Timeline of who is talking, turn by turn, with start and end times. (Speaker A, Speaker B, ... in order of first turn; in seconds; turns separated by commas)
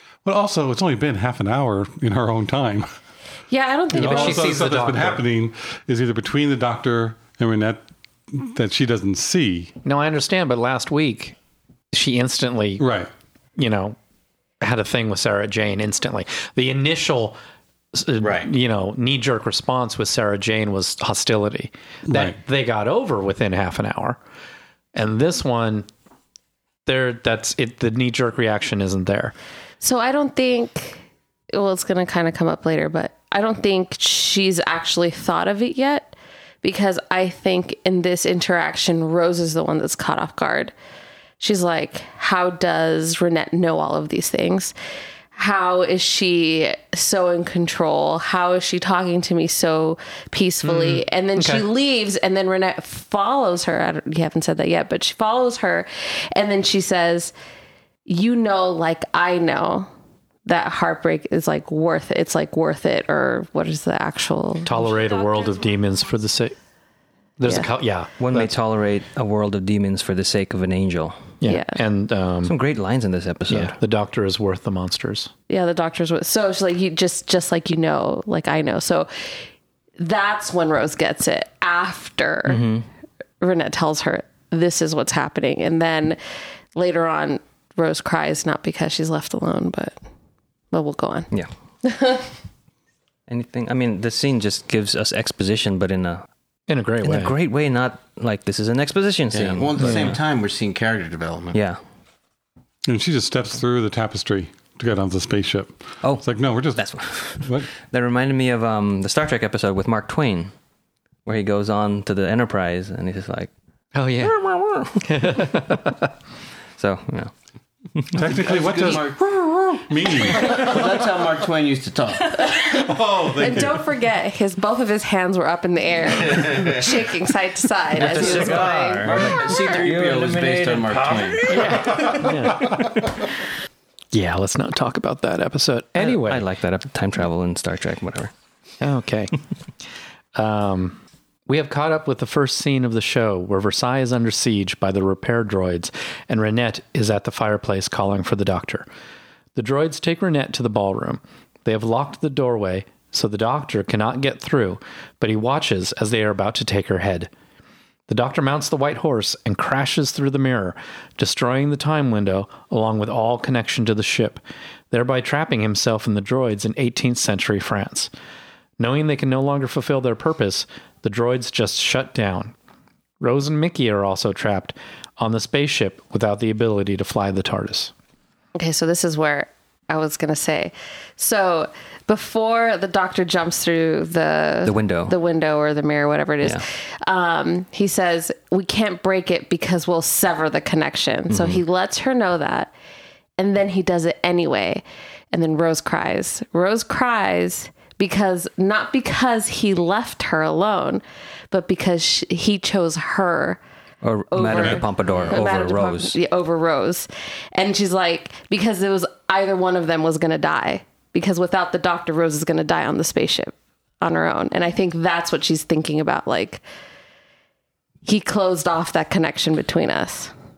Speaker A: 0.2-2.9, Speaker B: 3.5-4.6, Speaker A: 3.9-7.8, Speaker C: 4.0-5.2, Speaker A: 8.3-9.8, Speaker C: 9.8-11.4, Speaker C: 11.9-12.8, Speaker A: 12.8-13.1, Speaker C: 13.6-14.0, Speaker C: 14.6-17.4, Speaker C: 17.9-24.2, Speaker D: 18.2-18.5, Speaker A: 22.1-22.4, Speaker C: 24.9-25.9, Speaker C: 26.9-29.4, Speaker B: 29.8-31.0, Speaker B: 31.5-40.7, Speaker B: 41.4-44.7, Speaker B: 45.4-57.3, Speaker C: 50.6-51.7, Speaker B: 58.1-59.9, Speaker B: 60.5-65.1, Speaker C: 64.6-66.5, Speaker C: 67.4-68.5, Speaker E: 68.2-71.3, Speaker C: 71.4-72.5, Speaker B: 71.5-71.8, Speaker E: 72.4-73.8, Speaker C: 73.5-75.3, Speaker B: 75.5-79.1, Speaker B: 80.0-82.7, Speaker E: 82.5-82.9, Speaker B: 83.4-86.2, Speaker B: 86.8-90.0, Speaker B: 90.7-91.3, Speaker B: 91.8-92.3, Speaker E: 93.3-96.3, Speaker C: 96.7-97.4, Speaker E: 97.0-100.2, Speaker D: 99.3-101.6, Speaker C: 99.8-100.1, Speaker E: 101.5-101.8, Speaker A: 102.9-107.7, Speaker E: 106.0-110.5, Speaker E: 111.3-113.5, Speaker C: 113.9-114.4, Speaker E: 114.2-115.5, Speaker C: 115.0-116.1, Speaker E: 116.8-117.3, Speaker A: 118.1-121.0, Speaker D: 118.3-122.4, Speaker B: 122.4-129.1, Speaker A: 122.5-123.8, Speaker D: 126.2-126.9, Speaker E: 128.0-132.2, Speaker D: 128.0-131.7, Speaker C: 131.5-132.9, Speaker C: 134.1-136.5, Speaker E: 136.0-138.3, Speaker C: 138.8-139.3, Speaker C: 140.3-148.9, Speaker C: 149.6-157.3, Speaker C: 158.1-168.1, Speaker C: 168.8-172.6, Speaker C: 173.2-177.9, Speaker B: 178.6-192.7, Speaker E: 184.7-185.2, Speaker E: 191.3-191.6, Speaker B: 193.4-203.6, Speaker E: 204.0-206.2, Speaker B: 204.3-216.6, Speaker A: 204.5-204.8, Speaker D: 205.0-205.4, Speaker B: 218.1-220.3